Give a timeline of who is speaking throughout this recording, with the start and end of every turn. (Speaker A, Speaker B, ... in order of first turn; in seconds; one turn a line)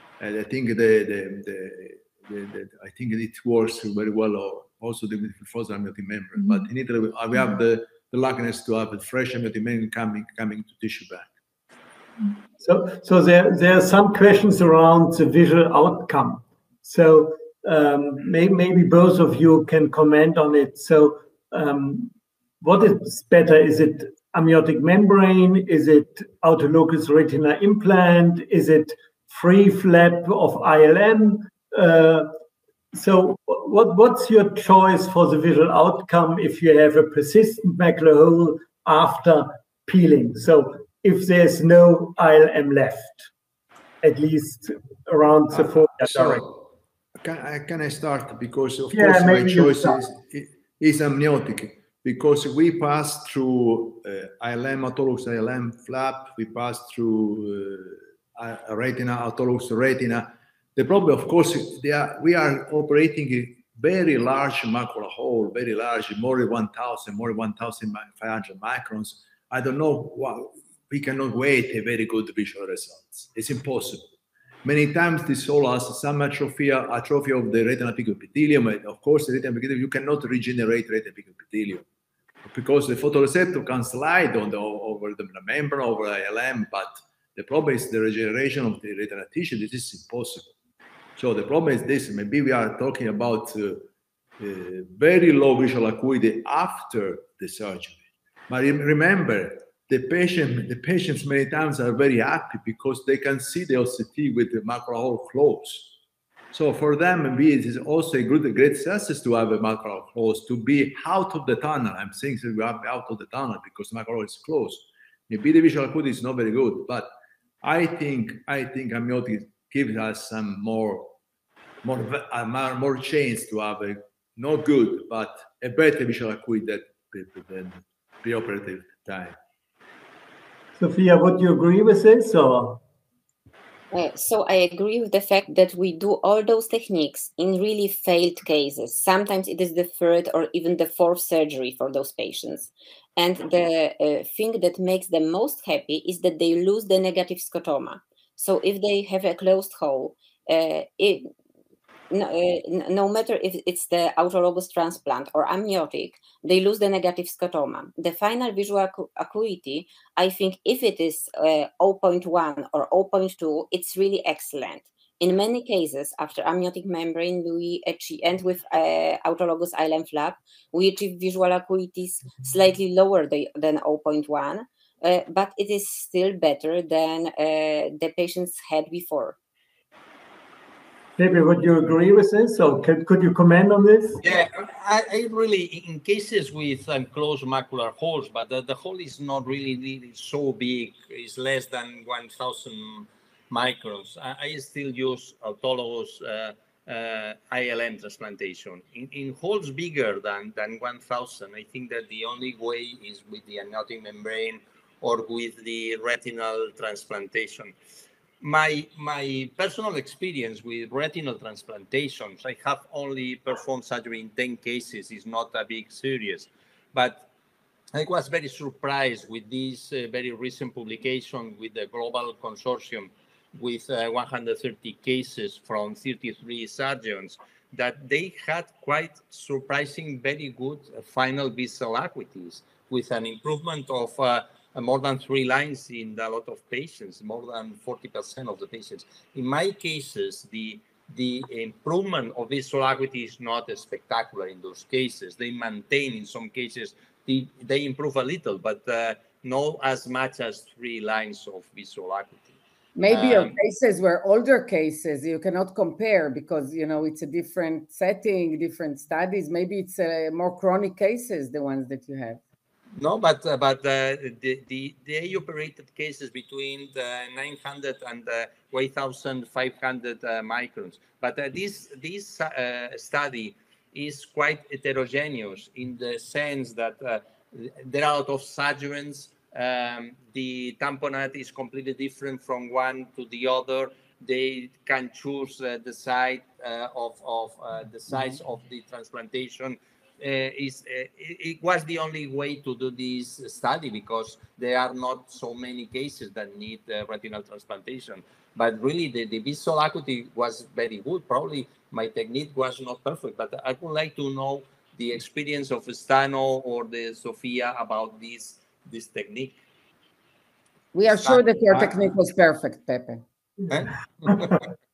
Speaker A: 0.2-11.3
Speaker B: 12.6-32.3
Speaker B: 32.9-43.3
Speaker B: 44.0-46.4
Speaker A: 45.5-46.5
Speaker A: 47.2-74.1
Speaker B: 48.9-50.0
Speaker A: 74.6-81.8
Speaker A: 82.4-90.5
Speaker A: 91.2-93.9
Speaker A: 94.4-105.9
Speaker A: 106.5-117.1
Speaker A: 117.6-121.2
Speaker A: 121.8-129.4
Speaker B: 130.8-132.8
Speaker C: 133.9-151.3
Speaker C: 152.1-179.4
Speaker B: 181.2-184.2
Speaker D: 184.2-207.7
Speaker D: 208.4-217.2
Speaker D: 217.9-252.5
Speaker E: 252.9-262.4
Speaker D: 253.1-253.6
Speaker D: 263.0-309.6
Speaker E: 310.9-313.2
Speaker D: 311.1-311.9
Speaker D: 313.7-314.6
Speaker B: 314.3-314.6